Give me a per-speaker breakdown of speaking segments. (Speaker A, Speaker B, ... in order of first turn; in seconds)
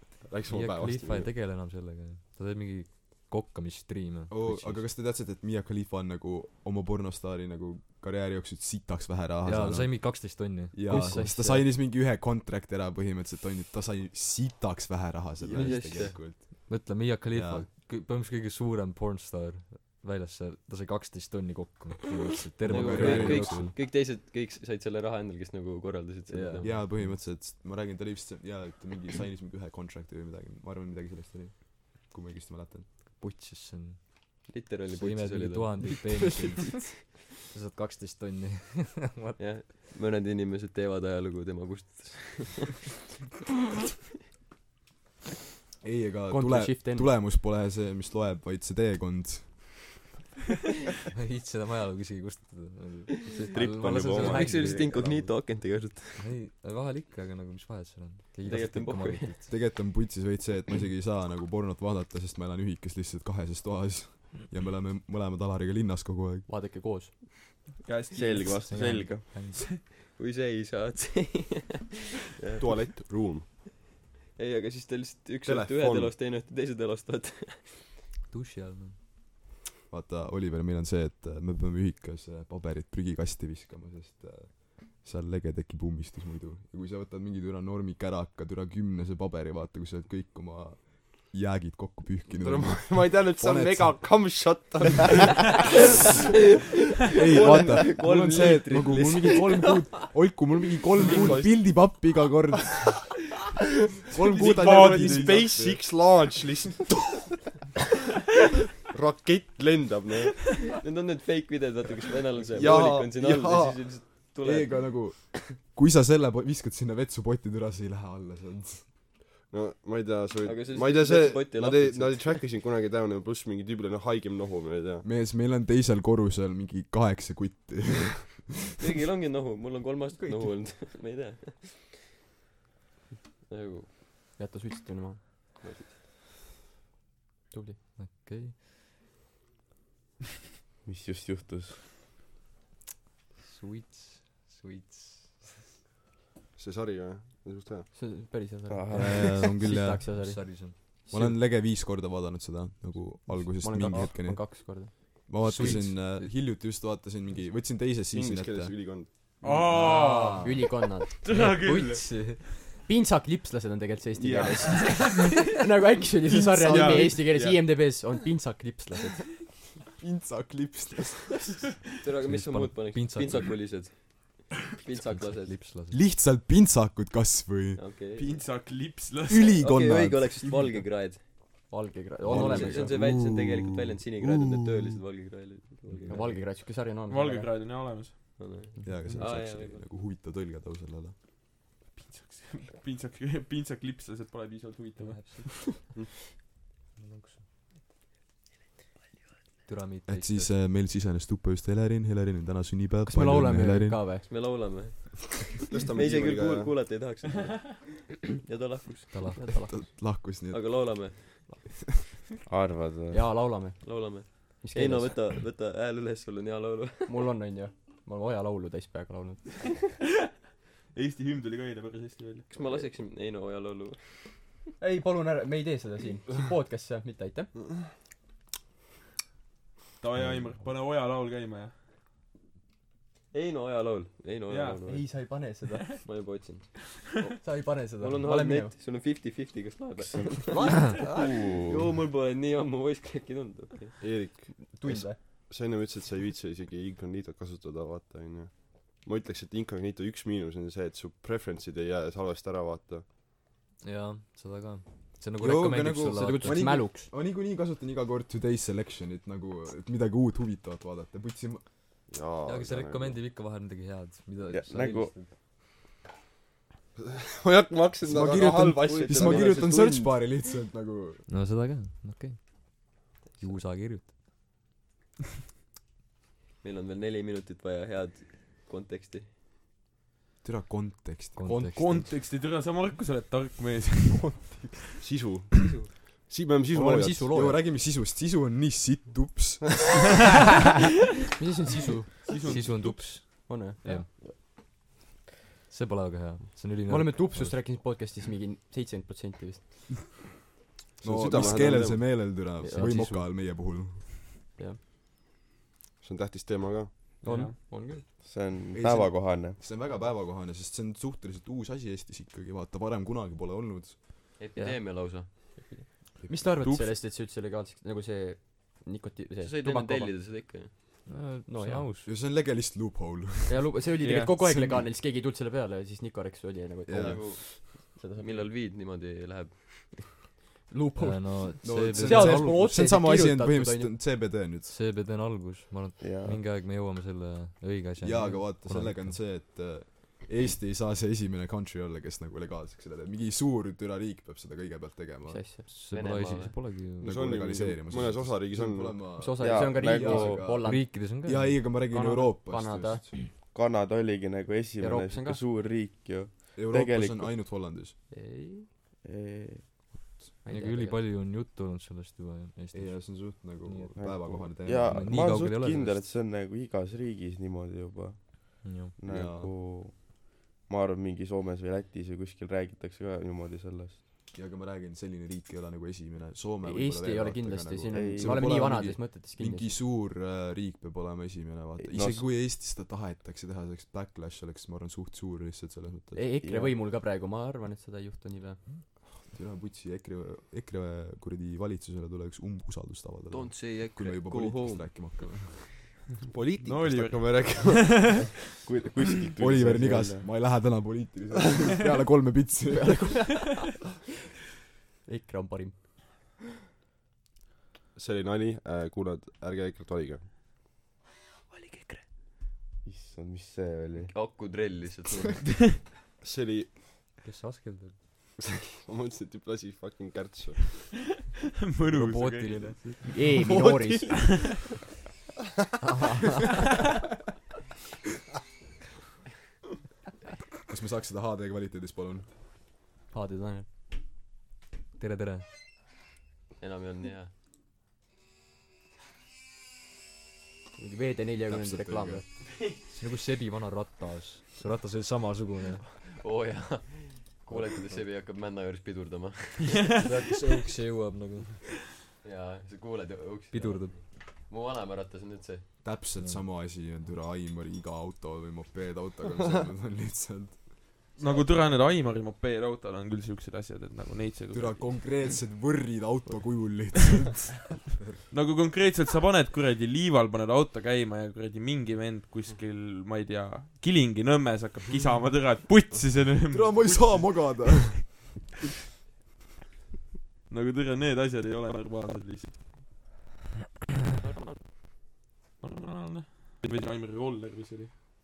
Speaker A: 0.2-1.3, 72.6-73.5, 75.4-76.1, 92.3-95.6, 97.5-97.8, 101.0-101.8, 104.3-107.4, 108.9-110.5, 112.5-113.2, 119.5-125.0, 146.6-147.9, 158.1-159.9, 205.7-206.8, 244.0-253.1, 262.1-263.2, 266.9-270.0, 285.0-287.3, 301.0-302.2, 306.0-307.2, 347.0-349.1, 407.9-410.3, 416.2-416.7, 418.8-420.9, 423.4-424.1
Speaker B: 0.5-4.9, 9.4-11.3, 15.6-23.8, 26.3-27.2, 33.1-36.9, 37.5-39.5, 51.1-54.9, 56.2-59.5, 68.6-69.7, 78.3-79.0, 138.0-138.6, 143.4-145.6, 150.1-151.0, 155.4-156.1, 159.7-162.6, 172.2-173.7, 174.9-176.0, 195.0-195.8, 196.9-197.4, 199.6-200.5, 209.1-209.5, 253.8-256.9, 262.4-265.3, 271.3-274.1, 281.3-282.1, 292.4-294.1, 295.7-297.7, 302.7-303.2, 321.1-322.1, 331.0-332.9, 334.6-339.2, 345.6-347.1, 350.5-351.7, 360.4-363.9, 364.8-366.1, 368.6-369.0, 417.2-418.0, 435.0-435.5, 442.9-445.8, 447.5-448.0, 449.9-451.6, 453.5-454.1, 456.1-456.5
Speaker C: 4.3-17.7, 22.6-23.7, 26.6-32.9, 45.8-50.0, 59.5-66.5, 79.9-94.0, 97.1-103.0, 104.1-105.8, 112.6-118.9, 125.0-128.4, 148.9-150.4, 151.1-159.1, 170.0-171.6, 175.9-177.8, 179.3-180.5, 182.2-183.7, 184.2-184.8, 188.8-191.1, 200.1-204.2, 209.4-211.3, 255.4-261.7, 268.0-271.3, 280.4-281.7, 287.3-290.2, 301.0-304.0, 308.7-314.4, 322.0-324.9, 326.9-327.4, 331.6-334.8, 338.0-345.5, 347.0-353.2, 356.5-357.9, 362.7-365.3, 369.0-369.5, 374.3-386.3, 389.2-396.0, 399.4-403.4, 430.7-432.3, 441.5-442.3, 455.8-460.9, 464.5-467.9, 476.5-478.4
Speaker D: 10.8-11.7, 36.2-36.5, 46.3-47.1, 54.1-54.7, 66.5-67.5, 134.4-135.2, 137.5-137.8, 147.9-151.4, 153.3-156.1, 159.8-161.4, 162.8-169.4, 181.7-182.9, 186.1-187.5, 188.8-189.2, 203.1-204.2, 209.3-209.7, 213.1-215.2, 217.1-219.8, 224.8-227.5, 234.9-236.0, 237.4-238.7, 240.5-241.3, 244.6-245.2, 256.0-257.1, 281.4-281.7, 284.1-285.0, 286.7-287.6, 291.4-292.5, 293.2-293.8, 296.7-300.2, 302.6-304.8, 307.2-308.2, 315.3-320.1, 321.4-321.9, 323.5-328.5, 330.7-333.9, 345.3-346.7, 349.2-351.1, 351.8-353.2, 354.8-355.4, 358.1-358.7, 360.4-361.0, 376.6-379.8, 386.1-388.7, 402.7-403.7, 405.1-405.8, 421.9-424.6, 425.8-426.6, 433.1-433.7, 440.8-442.2
Speaker E: 15.4-16.4, 22.7-26.8, 34.5-36.0, 39.4-42.7, 54.1-56.3, 58.4-59.3, 70.1-72.6, 74.3-77.9, 97.1-99.9, 110.5-115.2, 120.4-122.5, 128.8-131.9, 133.5-133.9, 135.6-135.9, 172.0-175.6, 177.8-178.4, 179.6-181.7, 182.3-186.4, 188.4-189.8, 204.2-209.9, 210.5-211.5, 213.8-217.2, 222.5-224.6, 233.3-235.1, 236.0-236.9, 238.0-244.0, 269.2-269.5, 273.2-273.6, 276.6-279.3, 285.5-285.9, 314.4-315.5, 319.4-320.7, 327.0-327.4, 328.2-330.1, 393.3-395.5, 414.1-415.6, 436.6-437.3, 445.9-450.0, 452.2-455.8, 484.2-484.6
Speaker F: 53.5-55.3, 68.1-69.3, 140.8-141.8, 148.7-149.5, 212.4-213.2, 240.8-241.9, 264.4-265.1, 308.1-309.6, 336.0-336.4, 349.3-350.6, 353.5-357.3, 359.0-359.7, 363.9-374.0, 377.9-378.8, 381.8-382.2, 386.4-386.7, 396.3-400.3, 412.8-414.1
Speaker G: 67.8-69.8, 104.3-105.5, 159.4-162.4, 164.2-165.2, 166.3-167.6, 178.1-179.6, 187.1-188.4, 191.9-195.7, 220.9-222.5, 230.0-231.7, 234.5-234.8, 281.7-284.6, 292.2-294.0, 307.2-307.5, 316.6-316.9, 324.0-324.3, 396.6-398.3, 421.6-422.9, 424.1-424.5, 461.2-465.2, 468.3-478.0, 480.5-482.9, 485.6-487.9